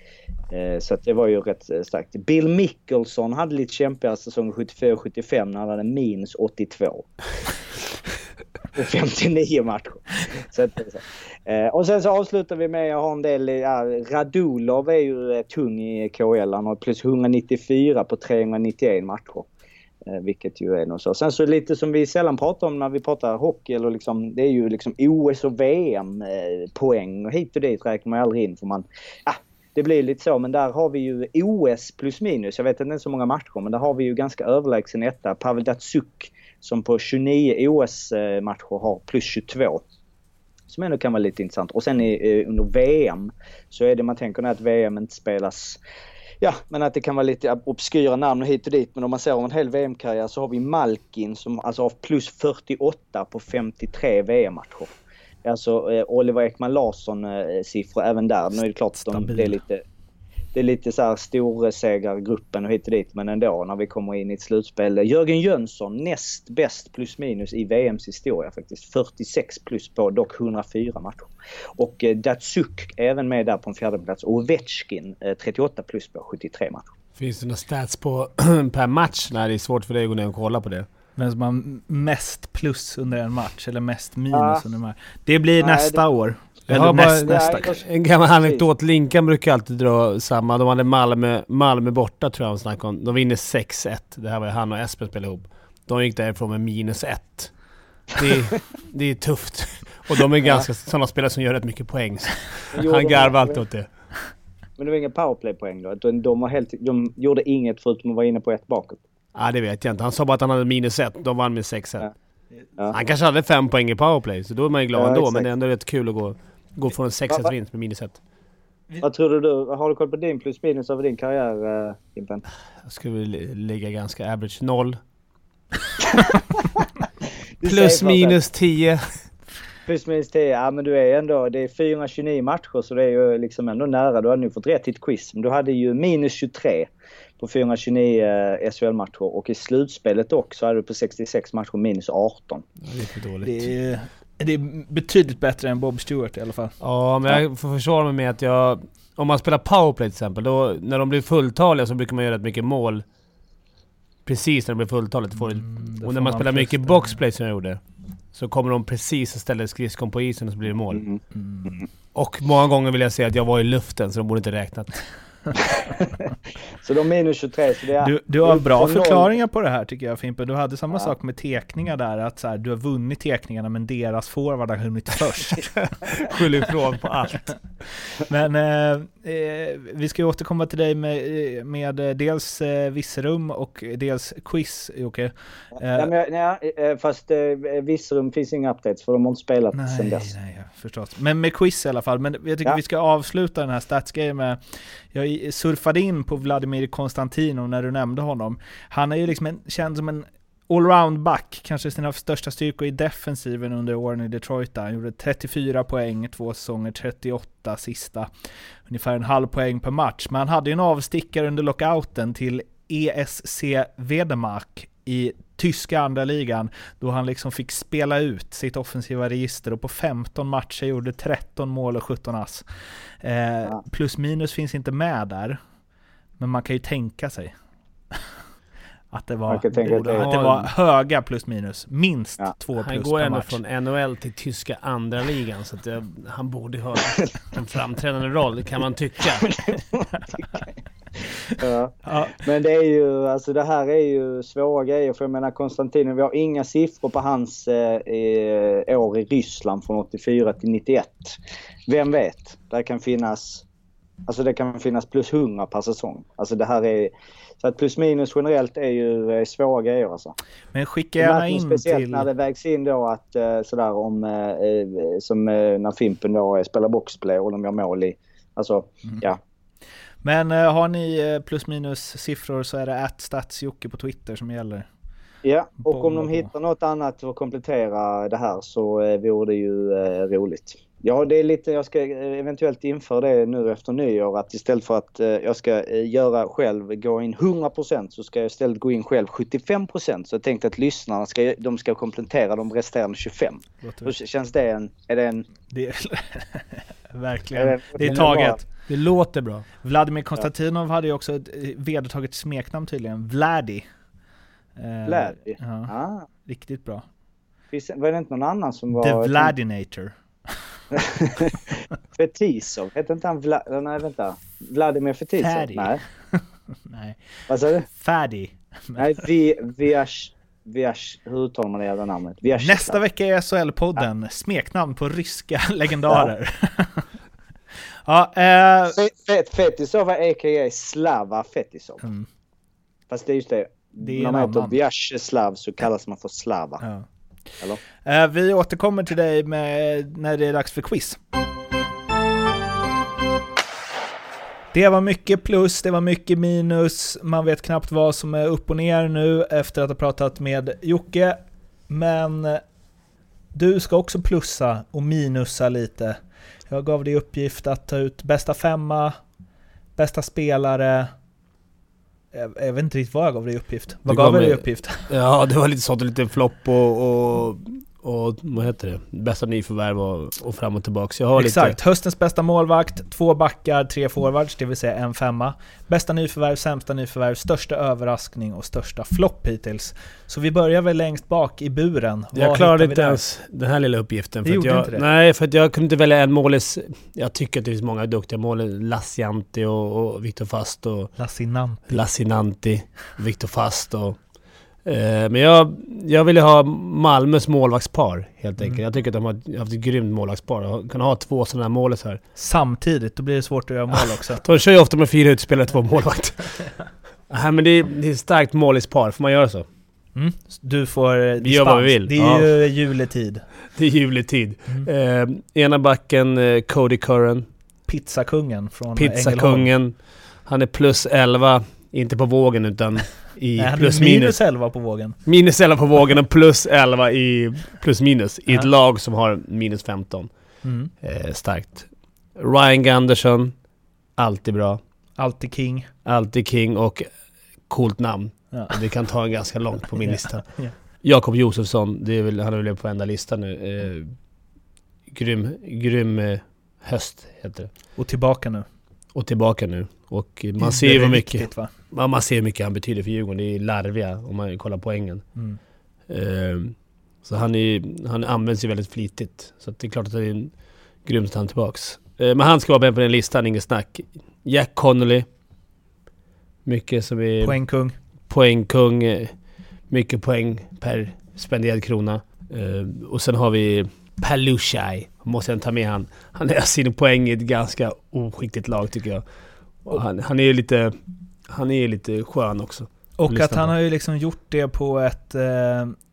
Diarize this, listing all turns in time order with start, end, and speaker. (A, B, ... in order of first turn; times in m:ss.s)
0:00.5-0:07.1 A
0:08.7-0:19.5 A
0:20.0-0:39.8 A
0:40.7-0:45.8 A
0:46.4-0:54.9 A
0:55.4-0:59.8 A
0:58.5-0:59.6 B
1:00.5-1:16.9 A
1:17.2-1:20.9 C
1:21.2-1:27.7 B
1:24.3-1:24.6 A
1:25.6-1:26.0 A
1:26.7-1:43.9 C
1:27.0-1:28.7 A
1:42.7-1:43.6 A
1:44.8-1:49.0 A
1:49.3-1:52.1 C
1:52.9-1:58.2 C
1:54.9-1:55.5 A
1:59.0-2:02.4 A
2:02.8-2:05.0 C
2:06.1-2:06.8 A
2:07.6-2:08.4 A
2:07.6-2:09.0 C
2:09.8-2:22.6 A
2:22.8-2:23.7 C
2:23.4-2:26.8 B
2:26.8-2:33.0 C
2:34.2-2:37.8 C
2:35.4-2:37.2 B
2:38.3-2:41.0 C
2:40.9-2:41.8 A
2:41.3-2:41.8 B
2:42.1-2:45.0 C
2:45.7-2:46.3 A
2:46.8-2:49.3 A
2:48.0-2:55.9 B
2:56.1-2:57.5 C
2:58.2-3:06.1 B
3:05.9-3:10.3 A
3:09.7-3:14.6 B
3:15.1-3:28.3 B
3:28.9-3:42.6 B
3:43.2-3:45.6 B
3:46.4-3:47.5 B
3:49.1-3:53.6 B
3:49.5-3:50.3 A
3:49.8-3:50.7 C
3:52.8-3:59.5 C
3:59.7-4:00.6 A
4:01.6-4:13.6 A
4:02.0-4:02.4 B
4:14.2-4:20.4 A
4:20.7-4:22.3 B
4:21.2-4:29.4 A
4:30.2-4:34.9 B
4:35.4-4:55.5 A
4:35.8-4:36.5 B
4:53.8-4:54.1 B
4:55.7-4:58.6 B
4:57.5-4:58.6 A
4:58.0-4:59.7 C
4:59.8-5:03.8 B
5:04.8-5:05.9 B
5:05.0-5:06.2 A
5:06.4-5:07.0 B
5:07.7-5:09.5 A
5:09.0-5:10.1 B
5:10.9-5:11.6 A
5:12.1-5:16.0 A
5:15.4-5:17.2 B
5:17.5-5:17.9 A
5:18.0-5:19.2 B
5:19.0-5:23.0 A
5:22.6-5:27.1 B
5:28.0-5:29.0 B
5:28.9-5:32.0 A
5:32.0-5:32.3 B
5:33.1-5:36.8 A
5:34.0-5:34.8 B
5:36.8-5:37.0 B
5:38.0-5:41.2 B
5:44.7-5:51.4 B
5:51.9-5:52.6 B
5:53.5-5:56.2 B
5:56.7-5:59.2 B
6:00.0-6:01.1 B
6:02.3-6:05.1 B
6:04.0-6:11.8 C
6:11.4-6:23.2 B
6:22.3-6:31.1 C
6:24.4-6:25.0 B
6:31.2-6:31.9 B
6:31.9-6:34.2 C
6:34.8-6:42.2 C
6:42.4-6:44.4 B
6:44.4-6:46.7 C
6:47.3-6:49.6 C
6:50.1-6:53.4 B
6:51.4-6:52.5 C
6:53.8-6:57.5 C
6:57.9-6:59.7 B
6:58.9-7:04.4 C
7:03.6-7:05.2 B
7:05.2-7:10.3 C
7:10.6-7:10.9 B
7:11.0-7:13.6 C
7:14.2-7:14.8 C
7:15.2-7:15.9 B
7:16.0-7:17.1 C
7:17.6-7:24.1 C
7:20.0-7:20.7 B
7:25.1-7:27.7 C
7:28.0-7:28.6 B
7:29.1-7:35.3 C
7:30.6-7:31.7 B
7:35.3-7:35.6 B
7:36.1-7:45.3 C
7:46.6-7:47.6 C
7:47.4-7:47.9 B
7:48.3-7:59.3 C
7:59.8-8:03.7 C
8:03.2-8:06.0 B